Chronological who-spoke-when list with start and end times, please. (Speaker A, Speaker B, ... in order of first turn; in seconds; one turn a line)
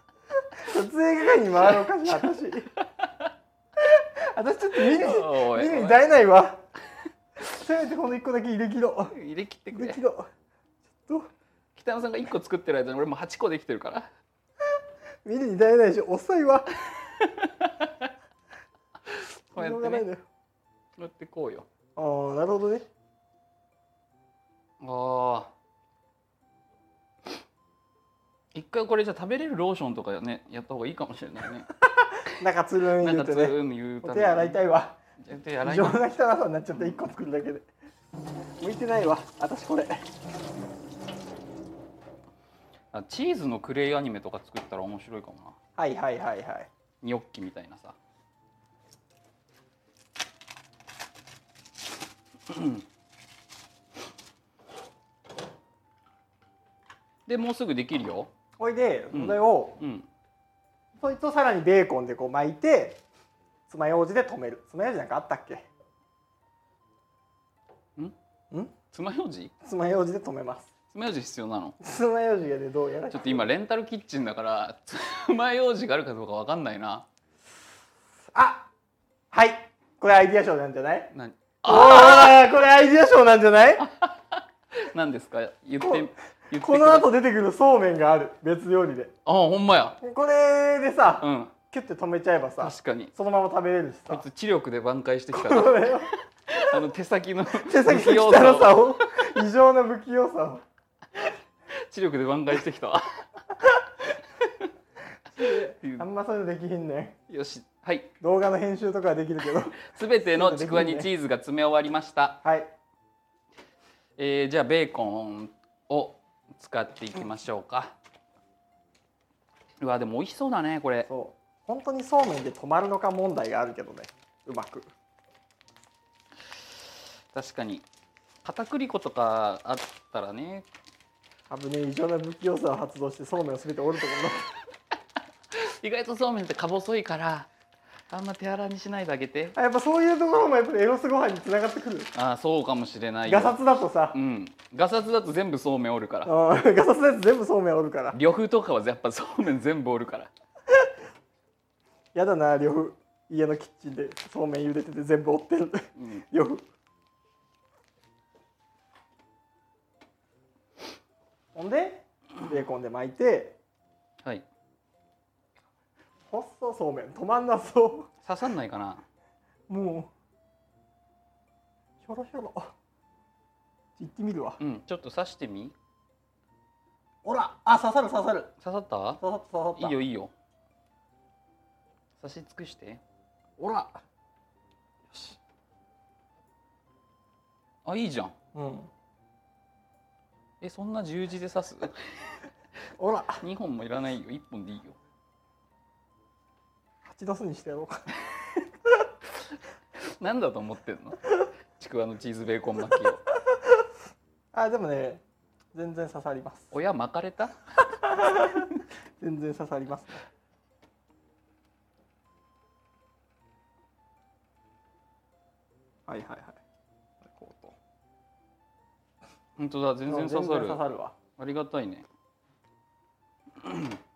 Speaker A: 0.6-2.7
Speaker B: 1.6-3.3
Speaker A: 3.8-6.6
Speaker B: 4.8-6.0
Speaker A: 7.5-9.1
Speaker B: 9.1-10.0
Speaker A: 9.7-10.3
Speaker B: 11.8-14.1
Speaker A: 15.2-16.7
Speaker B: 17.2-18.1
Speaker B: 19.1-20.1
Speaker A: 19.6-20.2
Speaker B: 21.0-21.7
Speaker A: 22.0-22.9
Speaker B: 24.8-25.5
Speaker B: 28.5-31.7
Speaker A: 32.1-35.0
Speaker B: 33.0-34.6
Speaker B: 35.2-36.0
Speaker A: 35.6-37.7
Speaker A: 38.6-40.0
Speaker B: 42.9-45.6
Speaker A: 45.8-46.7
Speaker B: 47.0-48.0
Speaker B: 52.5-52.8
Speaker B: 57.2-58.3
Speaker A: 58.6-59.8
Speaker B: 59.1-60.1
Speaker A: 61.0-63.0
Speaker A: 63.7-65.7
Speaker B: 68.9-69.5
Speaker A: 69.6-70.7
Speaker B: 70.9-71.8
Speaker A: 71.8-73.5
Speaker B: 73.1-77.0
Speaker A: 78.3-78.7
Speaker A: 79.3-81.1
Speaker B: 81.1-82.5
Speaker A: 81.6-83.9
Speaker B: 83.9-87.2
Speaker A: 85.8-89.1
Speaker B: 89.2-90.0
Speaker A: 90.0-94.2
Speaker B: 91.2-91.5
Speaker B: 92.6-93.1
Speaker B: 94.1-98.9
Speaker A: 95.3-96.1
Speaker A: 97.6-100.6
Speaker B: 101.8-103.0
Speaker A: 105.4-107.2
Speaker B: 105.4-106.1
Speaker B: 107.3-108.1
Speaker A: 108.2-111.1
Speaker B: 109.8-112.4
Speaker A: 112.4-112.7
Speaker B: 114.2-118.0
Speaker B: 119.8-121.1
Speaker A: 121.1-124.9
Speaker B: 127.3-127.8
Speaker B: 128.4-130.7
Speaker A: 131.5-134.5
Speaker B: 135.5-137.5
Speaker B: 138.1-139.6
Speaker A: 139.6-142.1
Speaker B: 142.1-143.6
Speaker A: 143.2-144.2
Speaker B: 144.1-146.3
Speaker A: 146.2-148.2
Speaker B: 148.1-150.3
Speaker A: 152.1-156.6
Speaker B: 156.0-156.2
Speaker A: 161.6-163.6
Speaker A: 166.3-168.1
Speaker B: 168.2-169.0
Speaker A: 169.7-170.1
Speaker A: 172.0-172.7
Speaker A: 174.0-174.6
Speaker B: 174.6-175.8
Speaker A: 177.2-178.5
Speaker B: 178.6-179.2
Speaker A: 179.2-179.9
Speaker B: 179.8-180.3
Speaker B: 182.2-183.0
Speaker A: 183.6-184.0
Speaker B: 187.8-188.3
Speaker A: 188.5-188.9
Speaker B: 190.6-192.4
Speaker A: 193.0-193.4
Speaker B: 193.4-195.0
Speaker A: 197.1-198.0
Speaker B: 200.0-201.2
Speaker B: 201.8-203.2
Speaker A: 204.5-205.2
Speaker A: 205.7-206.7
Speaker B: 206.7-207.6
Speaker A: 208.0-210.2
Speaker A: 216.1-216.6
Speaker A: 217.2-217.8
Speaker B: 219.6-220.8
Speaker A: 220.1-221.1
Speaker B: 221.4-222.1
Speaker B: 223.6-224.0